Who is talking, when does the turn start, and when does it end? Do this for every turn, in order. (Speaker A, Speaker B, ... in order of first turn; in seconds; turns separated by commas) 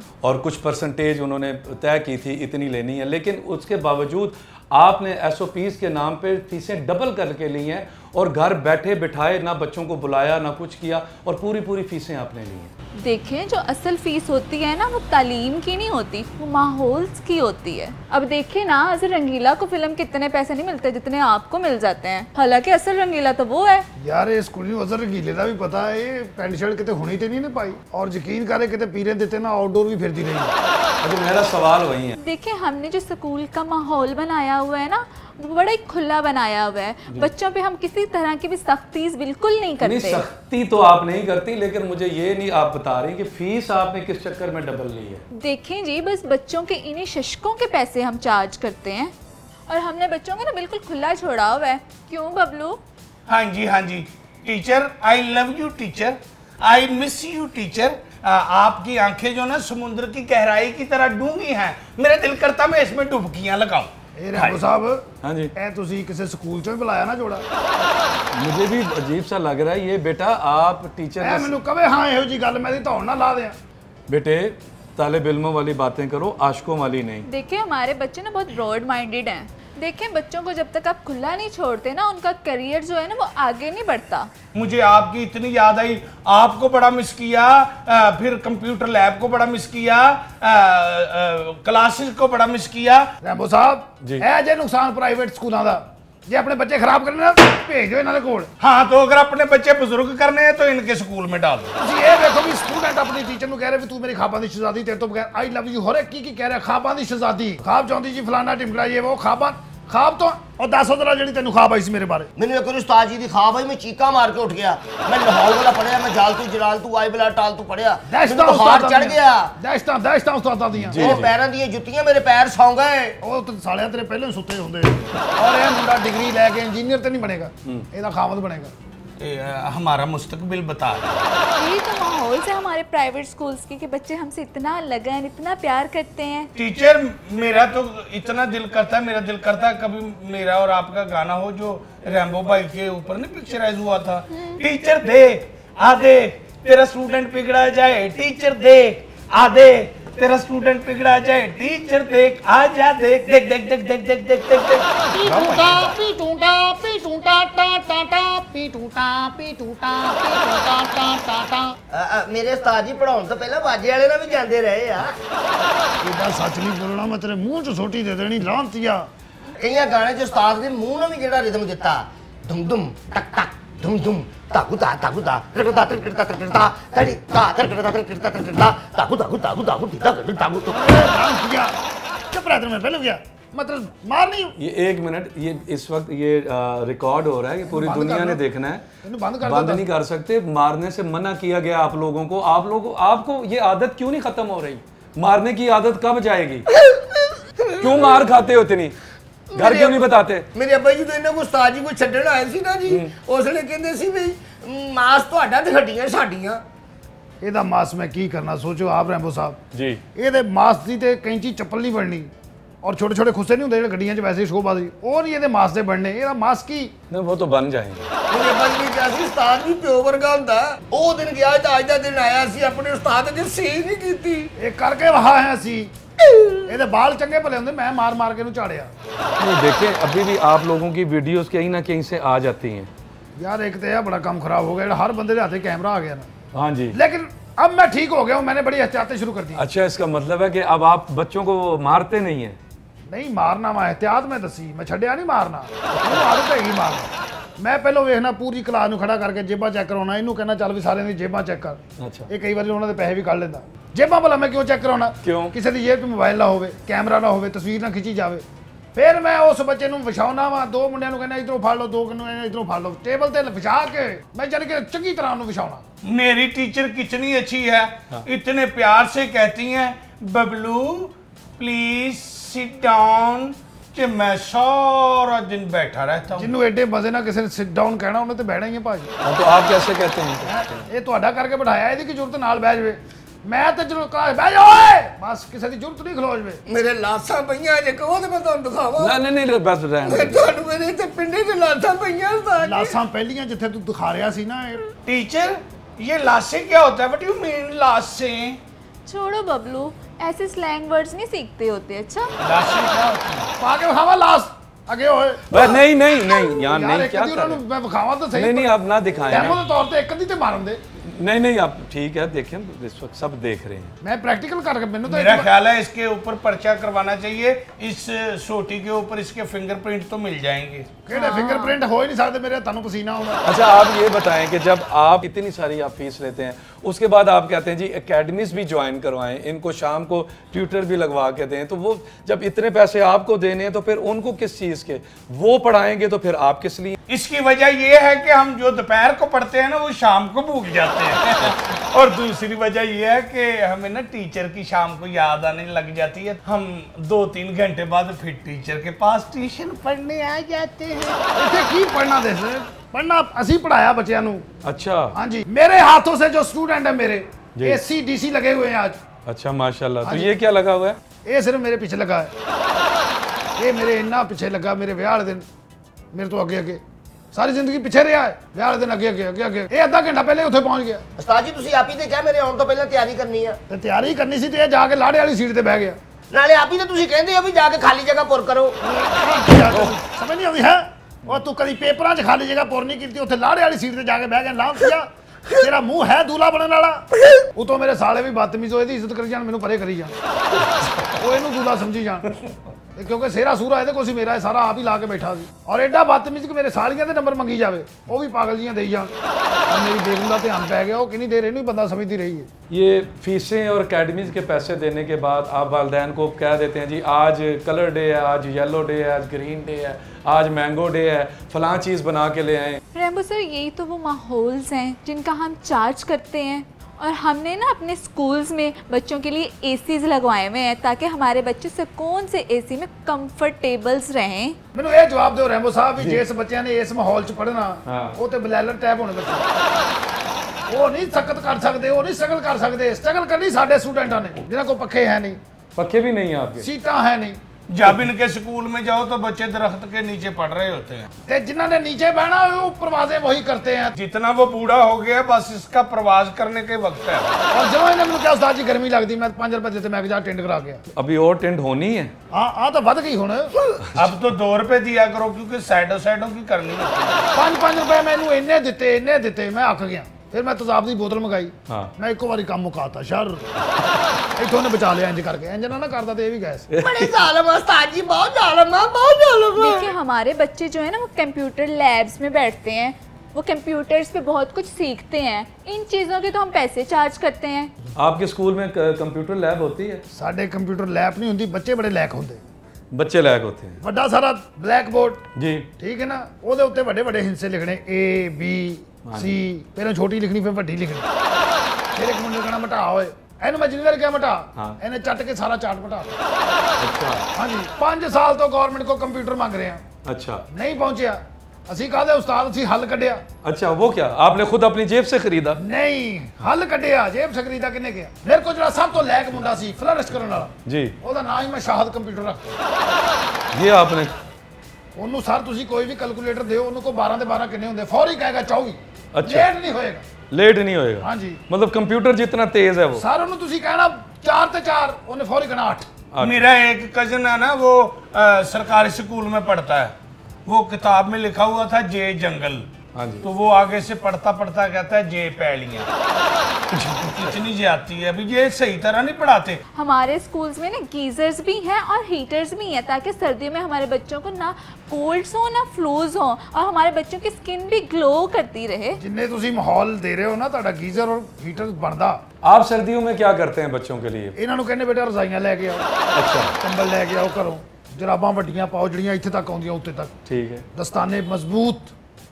Speaker A: 0.2-12.7, Speaker B: 13.0-23.9, Speaker C: 24.0-30.5, Speaker A: 31.0-32.2, Speaker B: 32.2-40.2, Speaker A: 39.8-45.2, Speaker B: 45.3-49.1, Speaker B: 49.7-52.8, Speaker D: 53.3-63.9, Speaker C: 64.2-67.5, Speaker A: 65.2-65.5, Speaker A: 68.3-71.5, Speaker C: 71.2-73.6, Speaker A: 74.1-77.3, Speaker B: 77.2-84.3, Speaker D: 84.5-93.1, Speaker C: 93.2-98.5, Speaker D: 98.6-101.8, Speaker C: 101.8-112.3, Speaker E: 112.4-119.5, Speaker C: 118.1-121.2, Speaker A: 120.8-121.4, Speaker E: 120.9-123.2, Speaker C: 123.2-128.7, Speaker D: 129.2-131.2, Speaker B: 131.6-136.5, Speaker D: 136.6-156.0, Speaker B: 144.3-144.6, Speaker C: 155.1-161.8, Speaker E: 161.9-165.2, Speaker C: 166.0-169.1, Speaker E: 169.6-181.1, Speaker C: 180.7-181.8, Speaker C: 182.3-184.5, Speaker A: 184.6-188.8, Speaker C: 187.7-188.4, Speaker C: 189.0-189.8, Speaker A: 189.4-196.7, Speaker E: 196.8-198.1, Speaker A: 197.8-199.0, Speaker E: 199.5-206.6, Speaker A: 199.5-200.5, Speaker A: 202.9-203.1, Speaker C: 207.4-209.6, Speaker A: 209.7-210.0, Speaker C: 210.2-212.3, Speaker C: 212.8-216.9, Speaker A: 217.1-218.1, Speaker E: 218.3-224.5, Speaker C: 224.6-225.9, Speaker C: 226.7-228.9, Speaker A: 229.4-232.9, Speaker C: 233.4-236.3, Speaker A: 236.5-237.0, Speaker C: 236.9-239.6, Speaker A: 239.6-242.6, Speaker C: 243.1-265.8, Speaker A: 245.9-246.2, Speaker A: 252.0-252.3, Speaker A: 255.2-255.6, Speaker D: 266.0-276.5, Speaker C: 276.4-279.1, Speaker A: 279.2-280.7, Speaker C: 280.4-286.6, Speaker E: 286.7-289.2, Speaker A: 289.0-290.5, Speaker E: 290.0-293.0, Speaker C: 292.6-294.8, Speaker D: 295.1-298.6, Speaker B: 299.1-302.3, Speaker D: 302.4-303.5, Speaker C: 303.6-305.8, Speaker A: 305.5-307.6, Speaker C: 306.4-308.7, Speaker A: 308.3-309.6, Speaker C: 309.3-310.8, Speaker A: 311.0-313.9, Speaker C: 314.0-315.5, Speaker D: 315.1-320.9, Speaker C: 321.1-323.4, Speaker B: 321.1-321.8, Speaker A: 323.4-337.0, Speaker D: 337.1-351.0, Speaker E: 350.9-351.2, Speaker C: 351.4-354.5, Speaker A: 354.6-355.1, Speaker C: 355.1-359.0, Speaker A: 357.6-357.8, Speaker A: 359.3-361.0, Speaker C: 360.0-360.3, Speaker C: 361.2-362.3, Speaker C: 363.6-365.5, Speaker C: 366.1-366.8, Speaker C: 367.3-371.1, Speaker E: 371.2-373.6, Speaker C: 373.7-376.0, Speaker E: 376.3-378.8, Speaker C: 378.8-390.2, Speaker C: 391.1-392.3, Speaker C: 392.9-399.1, Speaker C: 399.7-402.5, Speaker A: 402.7-412.8, Speaker B: 412.9-424.6, Speaker C: 424.7-429.4, Speaker A: 427.9-428.2, Speaker C: 430.7-435.4, Speaker A: 435.8-436.7, Speaker C: 436.6-437.4, Speaker D: 437.7-441.1, Speaker C: 441.3-443.9, Speaker D: 444.0-447.4, Speaker C: 447.5-450.8, Speaker A: 450.9-452.1, Speaker C: 452.3-453.5, Speaker D: 453.9-457.3, Speaker C: 457.3-463.5, Speaker A: 461.7-461.9, Speaker C: 464.4-466.7, Speaker A: 466.7-467.2, Speaker E: 466.8-469.9, Speaker B: 469.6-477.7, Speaker A: 478.0-480.0, Speaker C: 480.1-482.4, Speaker A: 482.9-483.8, Speaker C: 483.8-485.3, Speaker A: 485.4-485.7, Speaker C: 485.8-491.1, Speaker A: 489.1-489.4, Speaker C: 491.9-496.2, Speaker A: 496.8-497.2, Speaker C: 497.4-499.8, Speaker A: 500.0-500.4, Speaker C: 500.5-503.2, Speaker A: 503.4-505.6, Speaker C: 505.6-512.6, Speaker A: 510.6-510.9, Speaker A: 513.5-514.2, Speaker C: 515.0-520.1, Speaker A: 519.1-519.5, Speaker A: 520.3-523.0, Speaker C: 521.0-521.4, Speaker C: 523.0-525.9, Speaker A: 526.1-526.5, Speaker D: 526.2-529.9, Speaker D: 530.5-532.7, Speaker A: 532.9-533.2, Speaker D: 533.2-535.9, Speaker A: 536.7-537.4, Speaker D: 537.0-539.6, Speaker B: 539.7-549.0, Speaker C: 549.0-552.2, Speaker A: 552.4-554.4, Speaker C: 554.4-555.9, Speaker A: 556.1-556.5, Speaker C: 556.6-560.1, Speaker A: 560.3-560.6, Speaker C: 560.7-561.9